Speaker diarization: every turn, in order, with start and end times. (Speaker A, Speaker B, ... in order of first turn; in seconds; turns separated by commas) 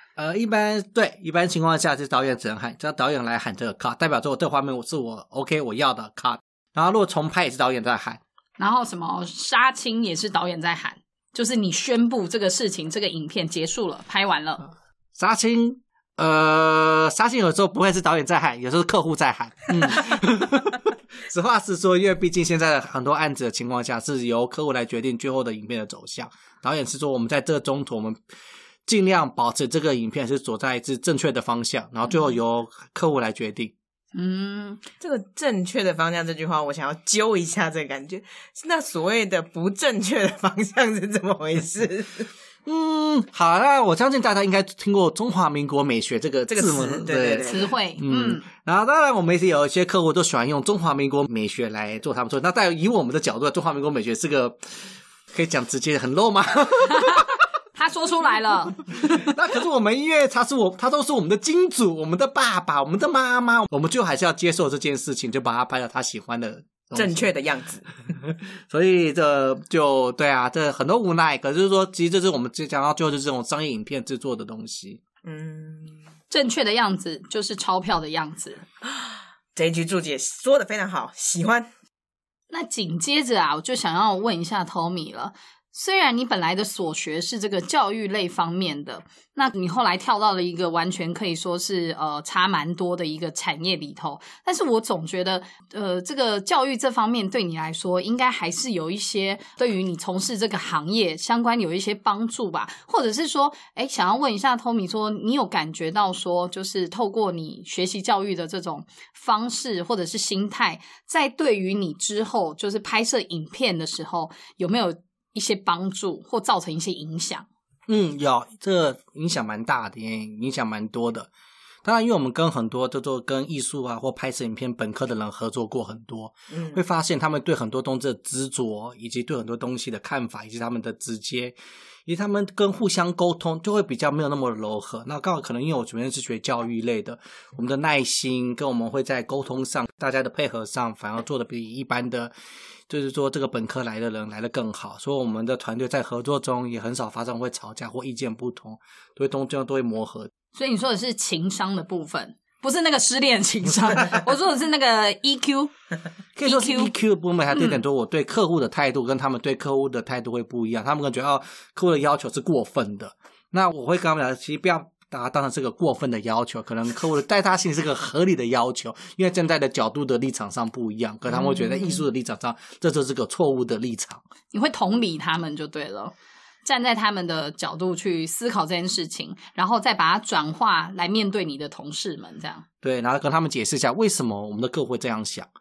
Speaker A: 0.2-8.2, Speaker B: 8.6-14.7, Speaker A: 15.2-28.2, Speaker A: 28.9-33.7, Speaker B: 34.1-34.8, Speaker C: 35.0-42.3, Speaker A: 42.6-54.6, Speaker C: 46.5-47.7, Speaker B: 47.5-48.4, Speaker A: 55.3-57.4, Speaker B: 57.7-58.8, Speaker A: 59.0-67.3, Speaker C: 66.9-67.9, Speaker A: 68.2-75.0, Speaker C: 75.2-76.0, Speaker B: 76.3-78.6, Speaker C: 79.5-81.7, Speaker B: 82.5-117.5, Speaker A: 117.9-121.3, Speaker A: 121.8-142.3, Speaker C: 126.5-126.8, Speaker A: 142.9-150.3, Speaker B: 150.5-155.7, Speaker A: 156.3-174.2, Speaker B: 156.4-156.9, Speaker B: 157.5-157.8, Speaker C: 171.4-171.8, Speaker B: 174.5-176.1, Speaker B: 176.6-182.6, Speaker A: 182.8-185.5